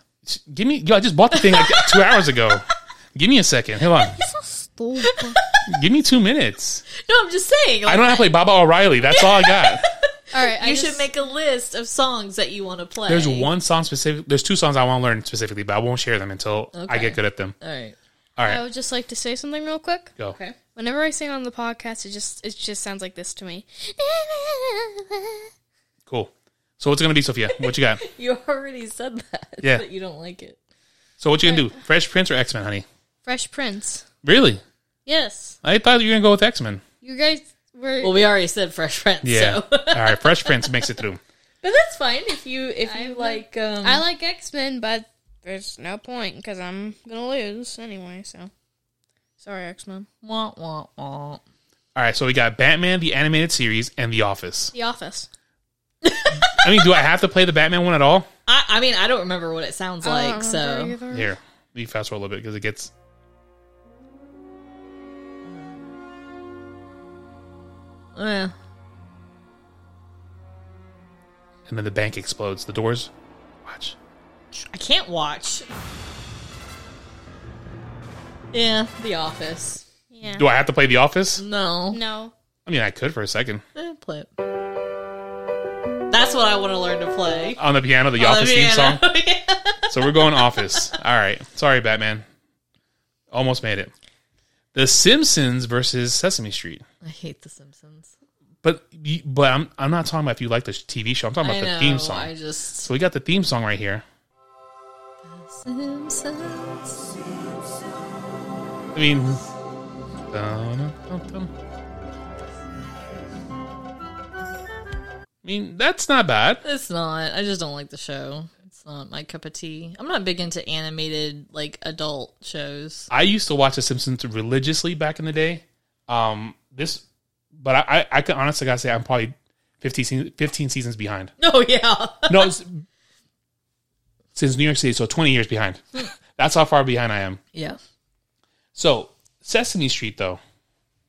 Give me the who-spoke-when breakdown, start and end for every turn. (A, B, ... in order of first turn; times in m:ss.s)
0:00.2-0:04.2 A
0:01.3-0:02.2 B
0:04.2-0:05.4 C
0:05.0-0:05.6 B
0:05.7-0:06.8 A
0:06.9-0:08.3 B
0:07.8-0:09.8 A
0:09.0-0:13.5 B
0:10.3-0:11.0 C
0:13.1-0:17.5 A
0:16.7-0:18.0 B
0:18.4-0:18.6 A
0:18.4-0:20.1 C
0:20.3-0:20.6 B
0:20.7-0:25.4 C
0:26.1-0:28.0 A
0:27.5-0:30.6 B
0:31.2-0:32.8 A
0:31.4-0:31.7 C
0:33.2-0:34.0 C
0:34.2-0:34.6 A
0:35.0-0:35.6 C
0:35.6-0:36.8 A
0:37.0-0:38.2 C
0:38.0-0:40.9 B
0:39.2-0:41.2 A
0:41.6-0:44.0 B
0:42.9-0:48.5 C
0:49.4-0:50.1 C
0:50.2-0:51.4 B
0:51.9-0:54.7 A
0:54.7-0:55.3 C
0:56.0-0:56.7 B
0:56.5-0:58.3 A
0:58.5-1:01.0 B
1:00.0-1:01.3 C
1:01.1-1:02.9 A
1:08.1-1:08.5 B
1:11.7-1:13.1 A
1:13.6-1:14.0 A
1:14.6-1:15.7 B
1:18.5-1:19.8 B
1:20.1-1:20.5 C
1:20.4-1:21.4 A
1:21.4-1:22.0 B
1:21.9-1:22.3 C
1:22.6-1:23.6 A
1:23.8-1:24.3 B
1:26.1-1:27.6 B
1:27.6-1:29.0 A
1:28.2-1:30.9 B
1:29.9-1:32.2 A
1:33.3-1:33.9 A
1:34.7-1:36.8 A
1:37.0-1:38.1 B
1:38.6-1:44.0 A
1:41.4-1:42.9 B
1:45.2-1:47.1 B
1:48.9-1:49.4 A
1:50.3-1:51.5 A
1:55.4-1:56.6 A
1:56.6-2:03.1 B
2:03.1-2:07.0 A
2:07.6-2:11.3 A
2:11.4-2:12.5 B
2:12.3-2:12.8 A
2:14.3-2:17.4 A
2:18.7-2:20.4 A